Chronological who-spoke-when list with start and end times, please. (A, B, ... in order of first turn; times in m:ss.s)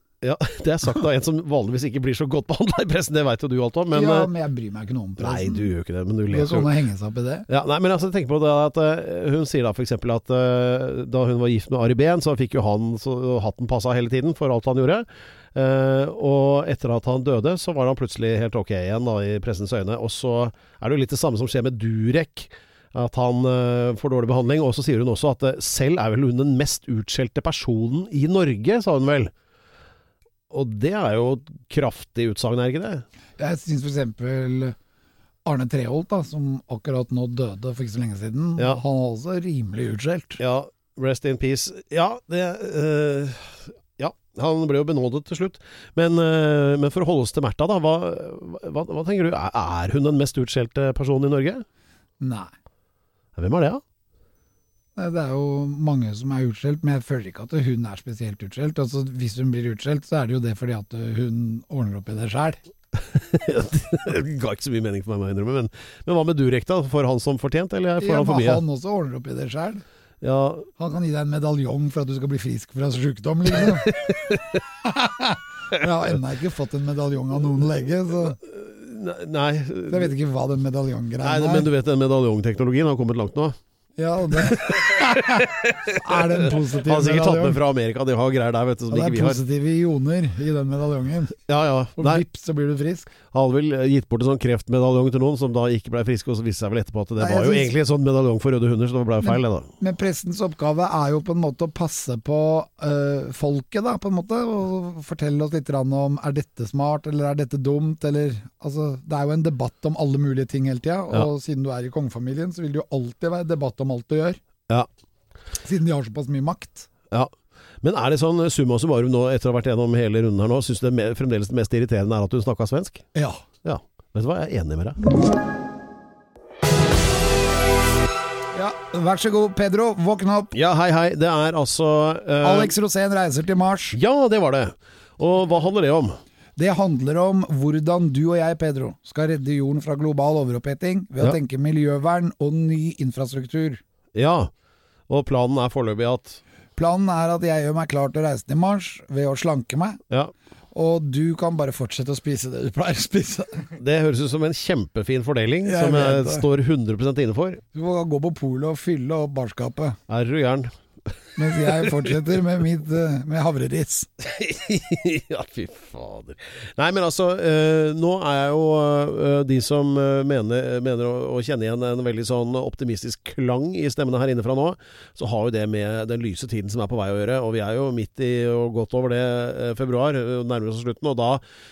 0:00.2-0:04.3 A
0:03.9-0:05.7 B
0:05.2-0:06.7 A
0:06.3-0:07.4 B
0:07.5-0:29.3 A
0:30.5-0:33.0 A
0:33.4-0:34.8 B
0:35.4-0:40.4 B
0:40.4-0:51.6 A
0:52.2-0:52.5 B
0:53.4-0:53.8 A
0:55.0-1:02.6 B
1:03.0-1:08.6 A
1:08.0-1:09.8 B
1:10.2-1:10.7 A
1:10.8-1:14.0 B
1:13.6-1:14.4 A
1:14.8-1:18.4 B
1:18.4-1:20.1 A
1:19.9-1:21.7 B
1:21.2-1:23.6 A
1:24.0-1:27.6 B
1:24.3-1:29.4 A
1:28.9-1:31.4 B
1:31.5-1:32.2 A
1:32.0-1:33.1 B
1:33.3-1:39.7 A
1:37.2-1:37.7 B
1:39.2-1:54.4 B
1:55.6-1:56.9 B
1:57.1-2:03.0 A
2:03.1-2:03.4 B
2:03.6-2:05.0 A
2:08.5-2:10.5 B
2:10.5-2:12.7 A
2:12.4-2:14.0 B
2:13.9-2:16.2 A
2:16.6-2:23.8 B
2:24.1-2:24.5 A
2:25.1-2:26.4 A
2:26.8-2:30.0 B
2:30.7-2:33.6 B
2:33.8-2:37.6 A
2:35.6-2:36.4 B
2:37.7-2:40.0 B
2:40.1-2:40.7 A
2:41.4-2:44.1 B
2:41.6-2:42.1 A
2:44.2-3:01.4 A